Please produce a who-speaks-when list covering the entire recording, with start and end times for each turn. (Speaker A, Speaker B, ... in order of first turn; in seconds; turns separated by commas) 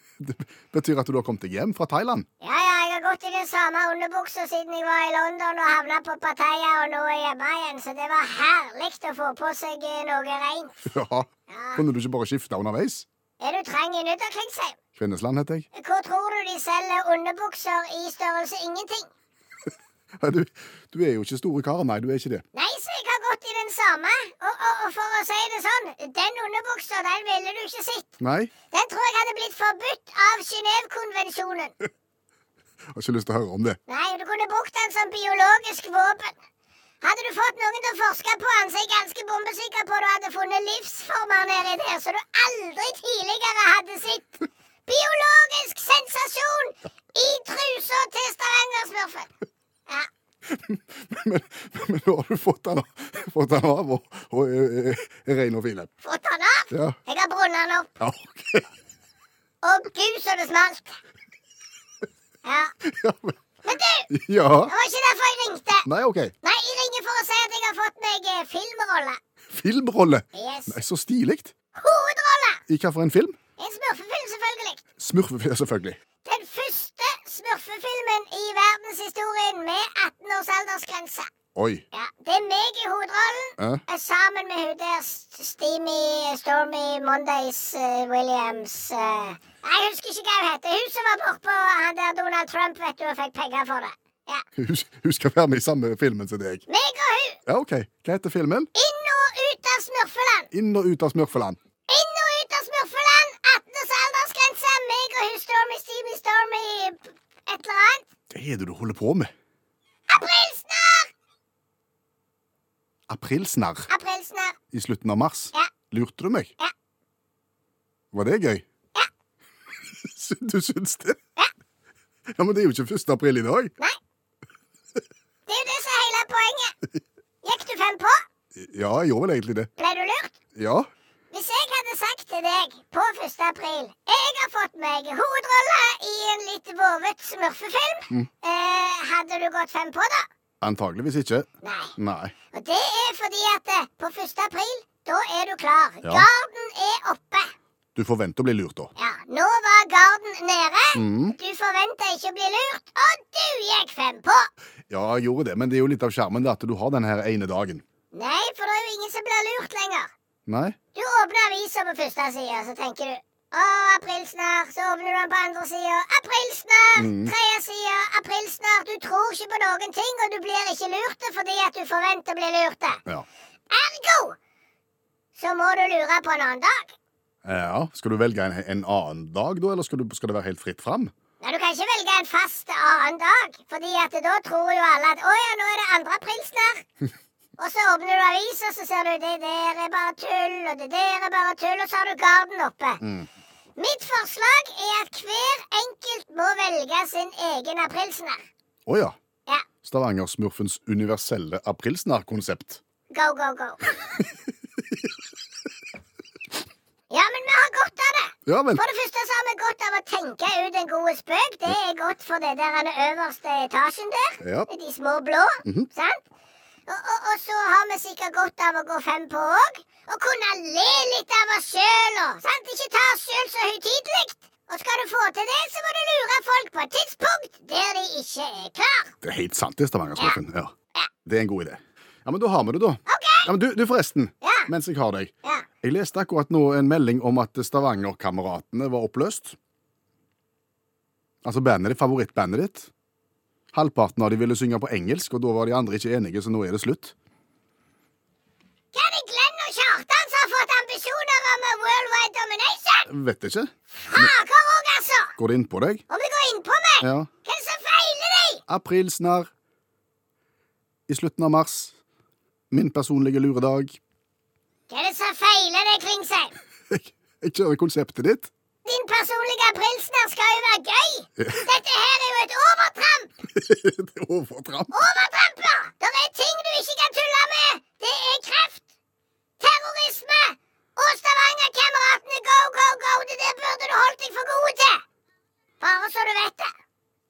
Speaker A: 0.2-2.3, Speaker B: 2.4-10.8, Speaker A: 10.9-13.1, Speaker B: 11.5-11.8, Speaker B: 13.4-14.8, Speaker A: 15.0-15.7, Speaker B: 15.7-19.1, Speaker A: 20.2-22.4, Speaker B: 22.5-28.2, Speaker A: 28.2-28.5, Speaker B: 28.7-31.8, Speaker A: 33.0-33.8, Speaker B: 33.9-36.4, Speaker B: 37.0-49.3, Speaker A: 50.5-55.9, Speaker B: 56.0-57.9, Speaker A: 56.7-57.0, Speaker A: 58.0-58.7, Speaker B: 59.6-61.0, Speaker B: 62.5-62.7, Speaker A: 62.8-63.4, Speaker B: 63.6-64.1, Speaker A: 64.1-64.7, Speaker B: 64.6-65.9, Speaker A: 65.9-66.3, Speaker B: 66.4-69.2, Speaker A: 69.5-71.5, Speaker B: 70.3-70.8, Speaker B: 71.8-72.6, Speaker A: 72.7-73.4, Speaker B: 73.6-74.8, Speaker A: 75.0-76.0, Speaker B: 76.2-81.3, Speaker A: 81.5-81.8, Speaker B: 81.9-94.4, Speaker A: 94.6-96.7, Speaker B: 96.7-97.4, Speaker A: 97.5-98.7, Speaker B: 98.8-100.5, Speaker A: 100.5-101.6, Speaker B: 101.9-108.1, Speaker A: 108.3-109.3, Speaker B: 110.1-111.1, Speaker A: 113.1-113.9, Speaker B: 113.9-114.6, Speaker A: 114.7-116.5, Speaker A: 118.1-118.6, Speaker A: 120.0-121.2, Speaker A: 122.3-123.7, Speaker B: 125.5-126.7, Speaker B: 127.4-128.2, Speaker A: 128.6-129.7, Speaker B: 129.8-130.4, Speaker A: 130.6-130.9, Speaker B: 131.3-140.3, Speaker A: 140.6-142.3, Speaker B: 141.6-141.9, Speaker B: 142.5-147.5, Speaker A: 147.9-148.9, Speaker B: 149.0-154.5, Speaker A: 150.9-151.4, Speaker A: 154.9-157.8, Speaker B: 158.1-160.1, Speaker A: 160.5-160.8, Speaker B: 160.9-173.0, Speaker A: 167.0-167.3, Speaker B: 173.7-174.4, Speaker B: 175.3-176.9, Speaker A: 177.4-181.1, Speaker B: 181.4-186.8, Speaker B: 187.6-193.0, Speaker A: 193.0-193.3, Speaker B: 193.8-198.4, Speaker A: 198.9-199.2, Speaker A: 199.8-202.8, Speaker B: 203.1-204.2, Speaker B: 207.1-216.2, Speaker A: 208.5-208.8, Speaker A: 214.4-214.7, Speaker B: 216.9-229.1, Speaker A: 229.2-230.7, Speaker A: 231.3-239.6, Speaker B: 233.1-233.5, Speaker B: 234.4-234.7, Speaker A: 241.4-242.9, Speaker A: 243.7-247.1, Speaker B: 248.9-253.1, Speaker A: 253.1-254.3, Speaker B: 254.0-255.3, Speaker A: 255.4-256.0, Speaker B: 256.1-258.6, Speaker A: 257.0-257.3, Speaker A: 258.7-259.5, Speaker A: 261.1-261.9, Speaker A: 262.7-264.0, Speaker B: 264.9-266.6, Speaker A: 266.9-268.5, Speaker B: 268.9-273.3, Speaker A: 273.5-274.9, Speaker B: 274.9-278.8, Speaker B: 279.6-285.0, Speaker B: 285.8-286.7